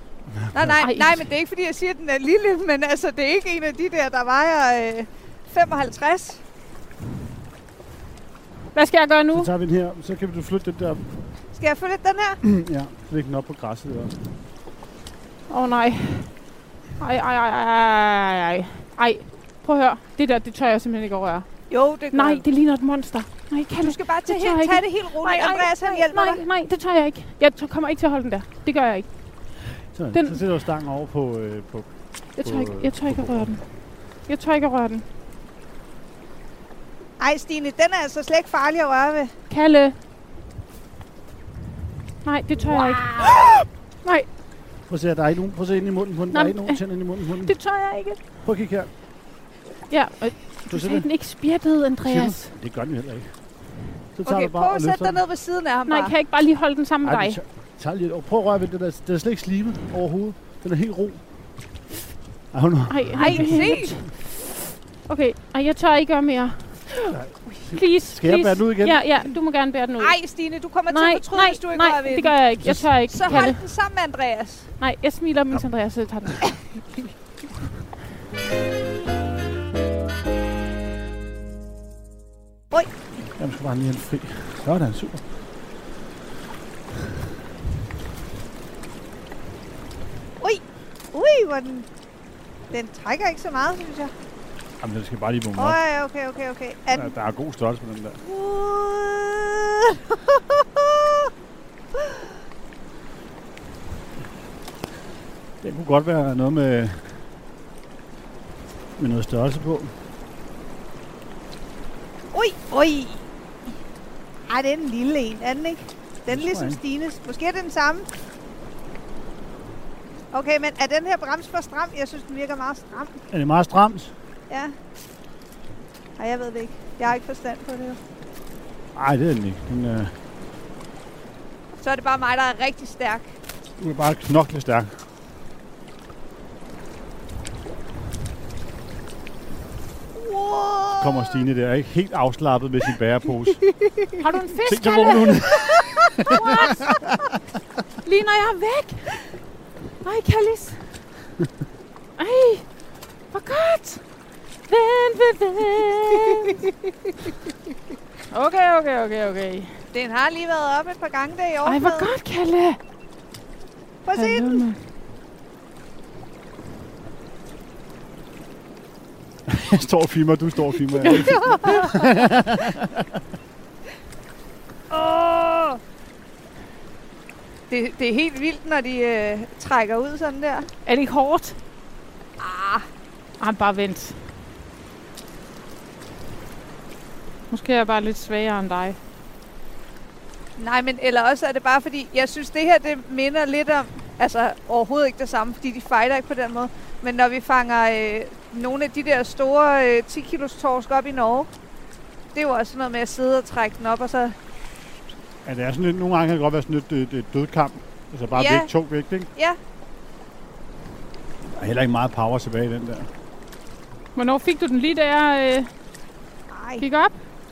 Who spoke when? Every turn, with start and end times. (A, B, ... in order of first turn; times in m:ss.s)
0:00.4-0:00.8 A
0:00.5-0:06.4 B
0:00.8-0:01.3 C
0:08.7-0:09.5 C
0:09.3-0:11.0 A
0:11.5-0:12.4 B
0:12.4-0:14.2 A
0:15.5-0:16.3 C
0:17.0-0:21.5 C
0:21.7-0:22.4 B
0:22.1-0:29.1 C
0:23.8-0:26.4 B
0:29.9-0:33.5 A
0:30.1-0:30.4 C
0:32.4-0:33.6 C
0:34.3-0:35.0 C
0:37.2-0:39.3 B
0:39.5-0:40.0 C
0:42.2-0:43.3 C
0:42.6-0:43.5 B
0:44.9-0:47.6 A
0:46.3-0:46.8 C
0:47.4-0:48.2 C
0:48.4-0:48.9 A
0:49.9-0:52.5 C
0:50.7-0:51.1 A
0:52.0-0:53.4 A
0:54.1-0:55.2 A
0:54.2-0:56.1 B
0:55.9-0:57.4 C
0:57.0-1:01.2 A
1:02.5-1:04.0 A
1:02.9-1:04.1 C
1:03.2-1:04.0 B
1:05.1-1:10.2 C
1:07.1-1:09.0 A
1:10.0-1:12.4 B
1:10.9-1:13.6 C
1:12.6-1:13.5 A
1:13.1-1:14.7 B
1:14.8-1:16.5 C
1:23.3-1:25.2 A
1:30.4-1:31.9 B
1:32.7-1:34.1 B
1:34.8-1:35.8 A
1:35.6-1:37.1 B
1:36.9-1:38.2 A
1:38.2-1:41.3 B
1:45.6-1:47.1 A
1:49.0-1:49.9 A
1:52.3-1:53.3 B
1:54.5-1:58.1 B
1:56.3-1:56.8 A
2:00.3-2:03.2 B
2:03.3-2:04.1 A
2:06.2-2:08.0 B
2:09.0-2:10.1 A
2:11.8-2:13.3 B
2:13.8-2:15.0 A
2:20.2-2:21.4 B
2:21.0-2:23.6 A
2:24.2-2:25.5 C
2:24.7-2:26.9 A
2:26.3-2:26.8 C
2:28.0-2:29.2 C
2:30.0-2:30.8 C
2:32.2-2:32.7 C
2:33.3-2:34.0 C
2:34.7-2:36.6 C
2:38.3-2:39.8 C
2:39.9-2:42.1 B
2:41.6-2:42.8 C
2:44.0-2:44.6 B
2:44.1-2:44.8 C
2:49.5-2:52.9 A
2:51.0-2:51.9 C
2:51.2-2:51.9 B
2:54.9-2:55.8 B
2:57.7-3:00.7 B
3:00.9-3:01.6 C
3:02.4-3:02.9 B
3:03.4-3:04.2 C
3:07.5-3:09.0 C
3:10.6-3:21.5 B
3:22.3-3:24.4 B
3:25.4-3:29.3 A
3:28.3-3:28.7 B
3:31.5-3:33.1 A
3:34.2-3:35.7 C
3:36.5-3:36.8 B
3:36.8-3:37.2 C